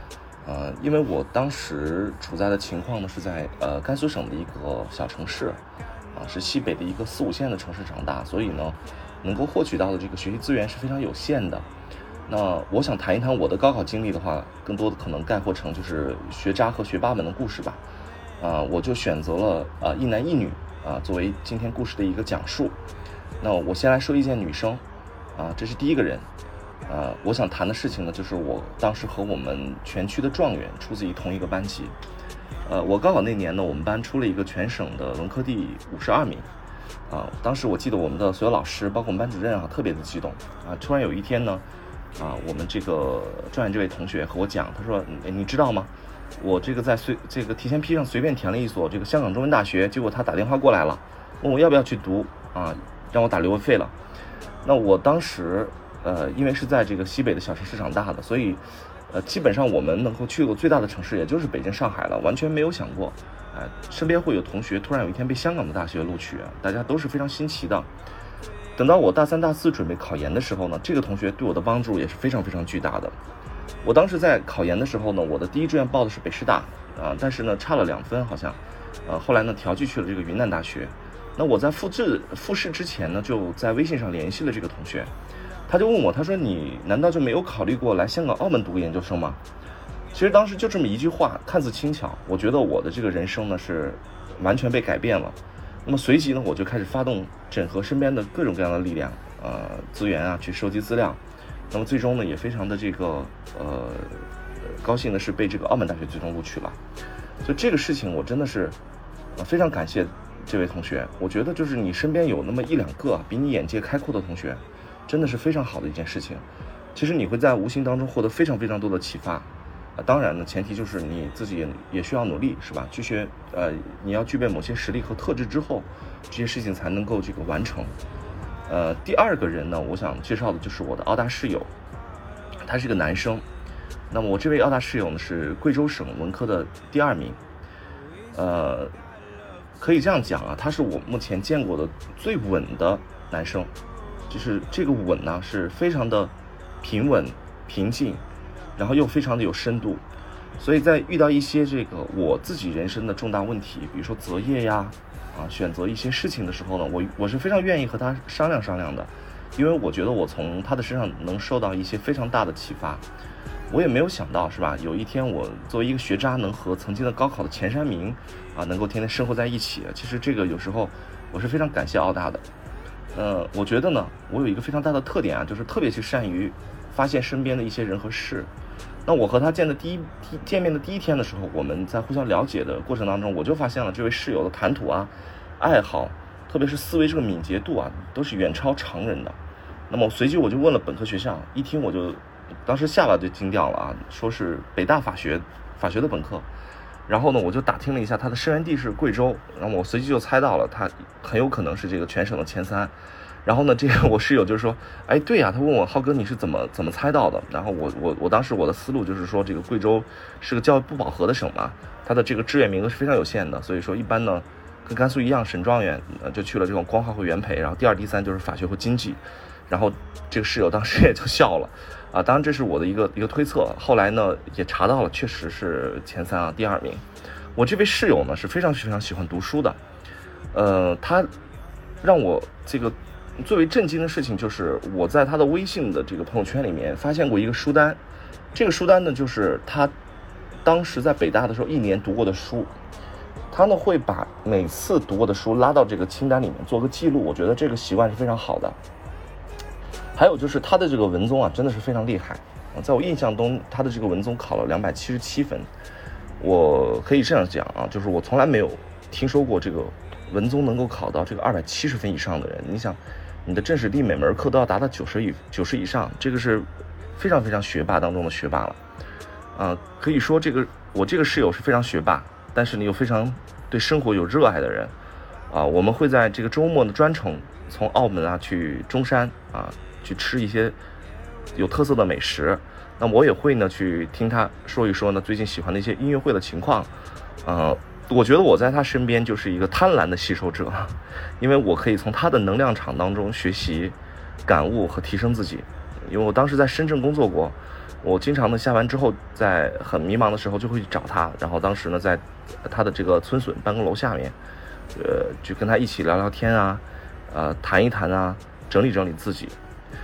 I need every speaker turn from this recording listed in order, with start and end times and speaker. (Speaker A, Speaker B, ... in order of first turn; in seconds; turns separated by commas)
Speaker A: 0.4-5.6, Speaker A: 6.1-11.7, Speaker A: 12.3-17.8, Speaker A: 18.4-22.8, Speaker A: 23.4-24.8, Speaker A: 25.3-26.3, Speaker A: 26.9-32.0, Speaker A: 32.6-36.5, Speaker A: 37.1-53.9, Speaker A: 54.6-67.9, Speaker A: 68.7-73.2, Speaker A: 73.8-85.1, Speaker A: 85.7-89.4, Speaker A: 90.1-106.8, Speaker A: 107.4-108.8, Speaker A: 109.3-127.9, Speaker A: 128.7-131.7, Speaker A: 132.6-133.4, Speaker A: 134.1-137.4, Speaker A: 138.3-138.9, Speaker A: 139.8-143.7, Speaker A: 144.3-148.2, Speaker A: 148.8-150.0, Speaker A: 150.6-163.1, Speaker A: 163.7-172.5, Speaker A: 173.1-178.5, Speaker A: 179.1-189.4, Speaker A: 189.9-196.5, Speaker A: 197.1-229.8, Speaker A: 230.5-231.3, Speaker A: 232.0-238.0, Speaker A: 238.5-239.9, Speaker A: 240.6-242.7, Speaker A: 243.5-248.8, Speaker A: 250.1-255.7, Speaker A: 256.4-268.8, Speaker A: 269.5-274.9, Speaker A: 275.5-280.8, Speaker A: 281.5-286.9, Speaker A: 287.4-304.4, Speaker A: 304.9-309.6